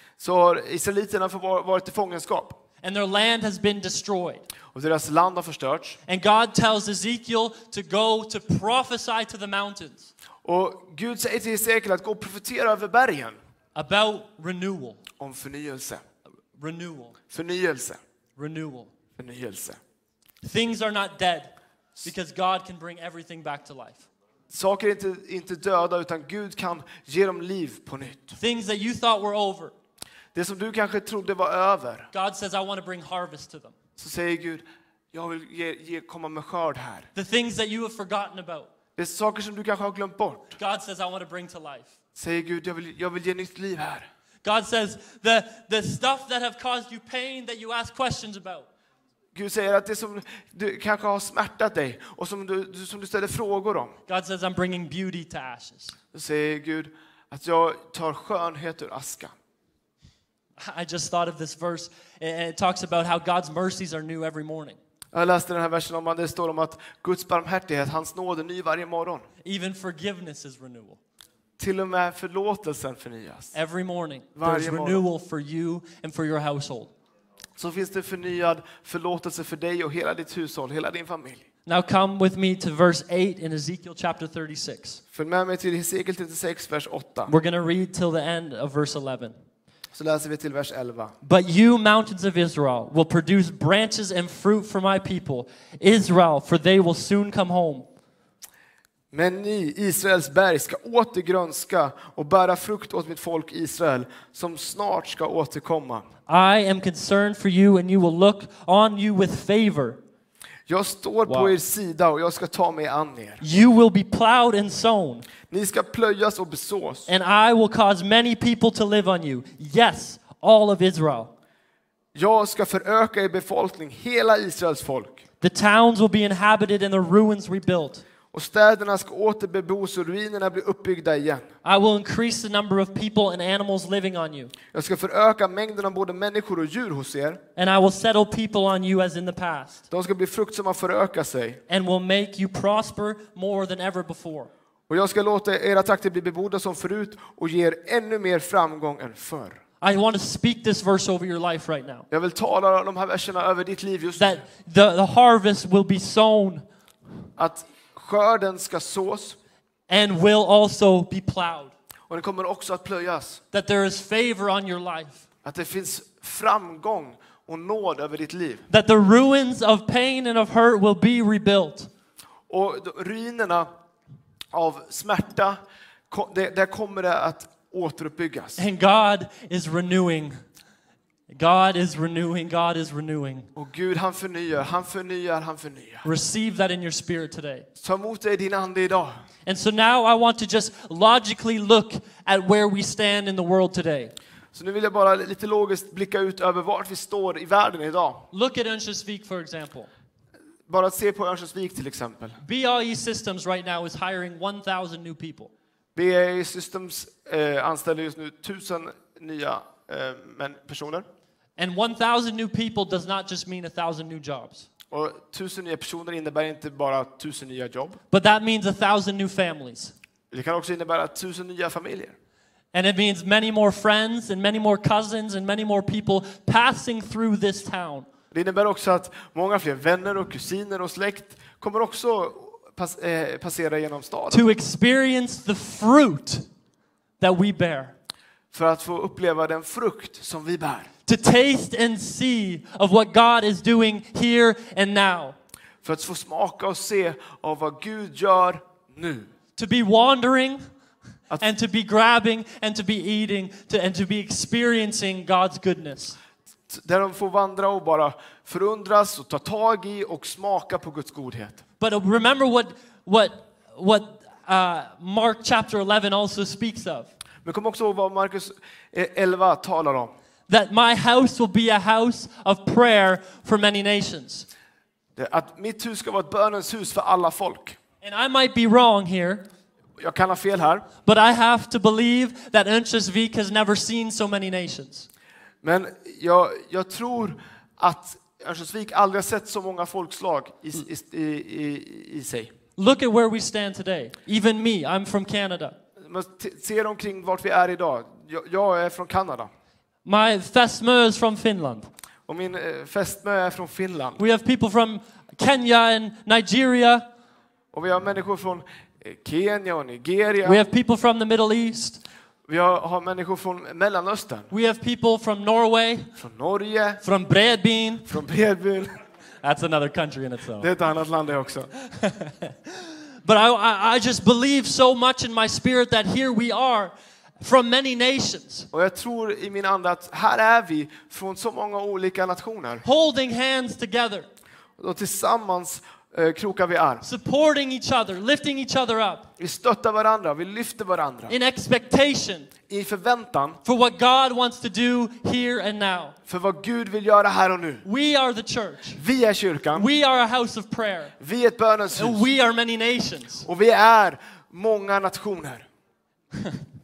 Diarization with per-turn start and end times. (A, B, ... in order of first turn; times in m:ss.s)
0:00.2-0:02.6 A
0:02.8-0:04.4 B
0:04.7-0:06.0 A
0:06.1-0:10.1 B
0:10.4-0:13.4 A
0:13.7-0:15.0 B
0:15.2-0:16.0 A
0:16.6-0:17.2 B
0:17.3-0:18.0 A
0:18.4-0:18.9 B
0:19.2-0:19.8 A
0:20.4-0:24.1 B
0:24.5-0:28.4 A
0:28.4-0:29.7 B
0:30.3-0:32.1 A
0:32.1-0:33.7 B
0:34.0-0:37.1 A
0:37.1-0:38.7 B
0:39.0-0:40.6 A
0:40.6-0:41.9 B
0:42.2-0:44.0 A
0:44.4-0:48.7 B
0:49.3-0:54.0 A
0:54.1-0:56.0 B
0:56.1-0:59.3 A
1:00.6-1:04.8 B
1:05.1-1:09.2 A
1:09.4-1:11.0 B
1:11.6-1:13.5 A
1:13.5-1:16.9 B
1:14.3-1:15.0 A
1:17.6-1:21.4 A
1:21.6-1:25.0 B
1:25.1-1:27.3 A
1:27.3-1:29.4 B
1:29.9-1:31.1 A
1:31.2-1:37.9 B
1:39.1-1:46.0 A
1:46.3-1:50.0 B
1:50.7-1:53.4 A
1:51.3-1:51.6 B
1:53.4-1:55.3 B
1:55.5-1:57.1 A
1:57.1-2:01.3 B
2:02.1-2:05.2 A
2:05.4-2:08.0 B
2:08.3-2:11.4 A
2:11.6-2:14.5 B
2:14.7-2:17.4 A
2:17.6-2:19.8 B
2:19.9-2:21.6 A
2:21.7-2:24.5 B
2:24.9-2:29.6 A
2:29.8-2:32.1 B
2:32.1-2:34.4 A
2:34.2-2:36.6 B
2:37.4-2:39.4 A
2:39.9-2:41.7 B
2:42.1-2:43.4 A
2:43.5-2:45.2 B
2:45.4-2:48.6 A
2:48.7-2:51.9 B
2:52.5-2:53.7 A
2:54.5-2:58.6 A
2:58.6-3:00.4 B
3:01.3-3:03.5 B
3:03.6-3:06.0 A
3:06.0-3:07.6 B
3:07.8-3:09.2 A
3:09.4-3:14.1 B
3:14.5-3:18.3 A
3:18.3-3:19.9 B
3:20.7-3:22.4 A
3:22.4-3:25.5 B
3:26.0-3:31.0 A
3:31.6-3:34.7 B
3:34.9-3:38.0 A
3:38.1-3:39.9 B
3:40.3-3:42.1 A
3:42.7-3:48.1 B
3:48.3-3:54.5 A
3:54.3-3:56.4 B
3:57.2-3:57.9 B
3:58.5-4:00.9 A
4:01.0-4:05.4 B
4:05.8-4:09.3 A
4:09.6-4:10.6 B
4:11.4-4:16.2 B
4:16.7-4:21.6 A
4:21.8-4:27.1 B
4:27.4-4:30.1 A
4:30.5-4:34.5 B
4:35.2-4:37.8 A
4:38.0-4:39.4 B
4:40.0-4:40.9 A
4:41.0-4:45.1 B
4:45.6-4:52.5 A
4:52.8-4:55.8 B
4:56.0-4:59.5 A
5:00.0-5:01.9 B
5:02.3-5:04.2 A
5:04.2-5:07.0 B
5:07.7-5:10.6 A
5:10.4-5:12.0 B
5:12.5-5:14.5 A
5:14.5-5:16.1 B
5:16.2-5:17.0 A
5:17.0-5:18.1 B
5:18.1-5:18.9 A
5:19.4-5:20.7 B
5:20.6-5:21.7 A
5:21.9-5:22.5 B
5:23.2-5:28.7 B
5:28.7-5:32.8 A
5:32.8-5:34.3 B
5:34.8-5:37.0 A
5:37.0-5:39.3 B
5:39.4-5:41.4 A
5:41.3-5:42.5 B
5:42.7-5:43.6 A
5:43.6-5:46.1 B
5:46.3-5:47.8 A
5:47.8-5:49.0 B
5:49.0-5:49.9 A
5:49.7-5:51.1 B
5:51.2-5:52.3 A
5:51.9-5:53.4 B
5:53.4-5:55.6 A
5:56.3-5:56.6 B